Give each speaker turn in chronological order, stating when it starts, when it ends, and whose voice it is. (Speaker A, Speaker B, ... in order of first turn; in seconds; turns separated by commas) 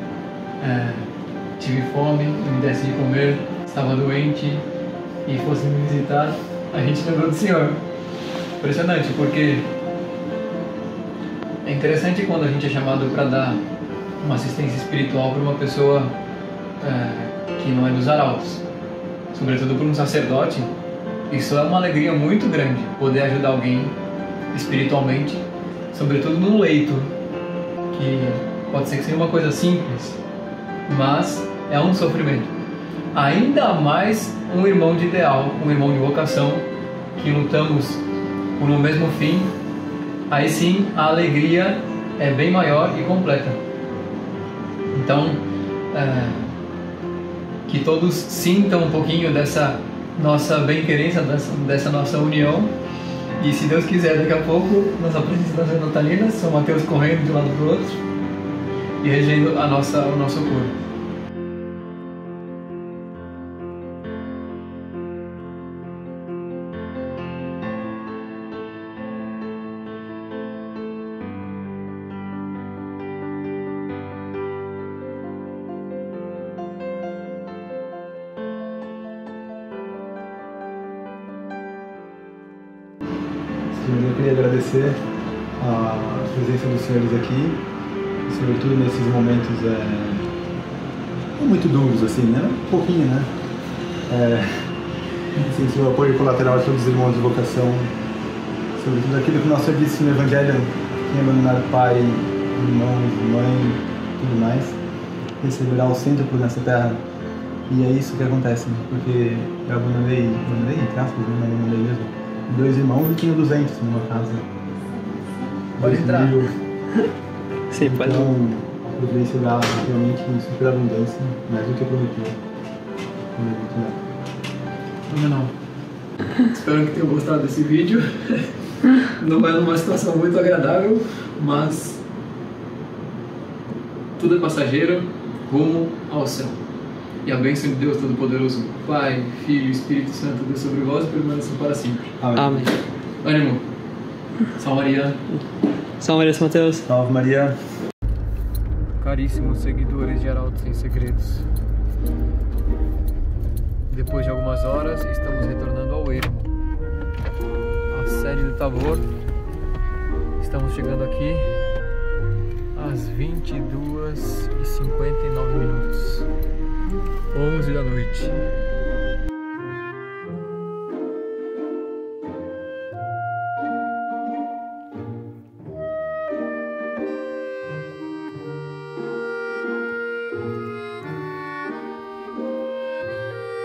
Speaker A: 0.6-4.7, Speaker A: 5.3-7.8, Speaker A: 8.6-9.7, Speaker A: 11.6-13.6, Speaker A: 14.2-16.2, Speaker A: 16.8-18.6, Speaker A: 19.3-20.7, Speaker A: 21.3-24.0, Speaker A: 24.5-27.1, Speaker A: 27.9-30.2, Speaker A: 30.9-32.5, Speaker A: 33.1-38.0, Speaker A: 38.6-39.5, Speaker A: 40.3-43.6, Speaker A: 44.9-46.5, Speaker A: 47.7-52.8, Speaker A: 53.4-58.0, Speaker A: 59.0-60.8, Speaker B: 83.7-85.0, Speaker B: 85.6-87.6, Speaker B: 88.3-90.3, Speaker B: 91.4-93.3, Speaker B: 94.1-94.7, Speaker B: 95.4-97.9, Speaker B: 98.8-104.8, Speaker B: 105.4-107.0, Speaker B: 107.7-114.5, Speaker B: 115.8-116.6, Speaker A: 115.8-116.4, Speaker C: 117.7-118.3, Speaker B: 117.8-122.4, Speaker B: 123.3-124.0, Speaker A: 125.1-125.5, Speaker A: 126.5-132.0, Speaker A: 134.2-136.6, Speaker A: 137.2-142.1, Speaker B: 142.2-142.7, Speaker C: 142.4-142.8, Speaker A: 143.2-143.7, Speaker A: 144.6-145.2, Speaker C: 146.0-146.9, Speaker B: 146.9-147.6, Speaker A: 149.0-151.5, Speaker A: 153.9-156.5, Speaker A: 157.9-159.1, Speaker A: 160.4-161.5, Speaker A: 162.7-166.3, Speaker A: 167.3-168.3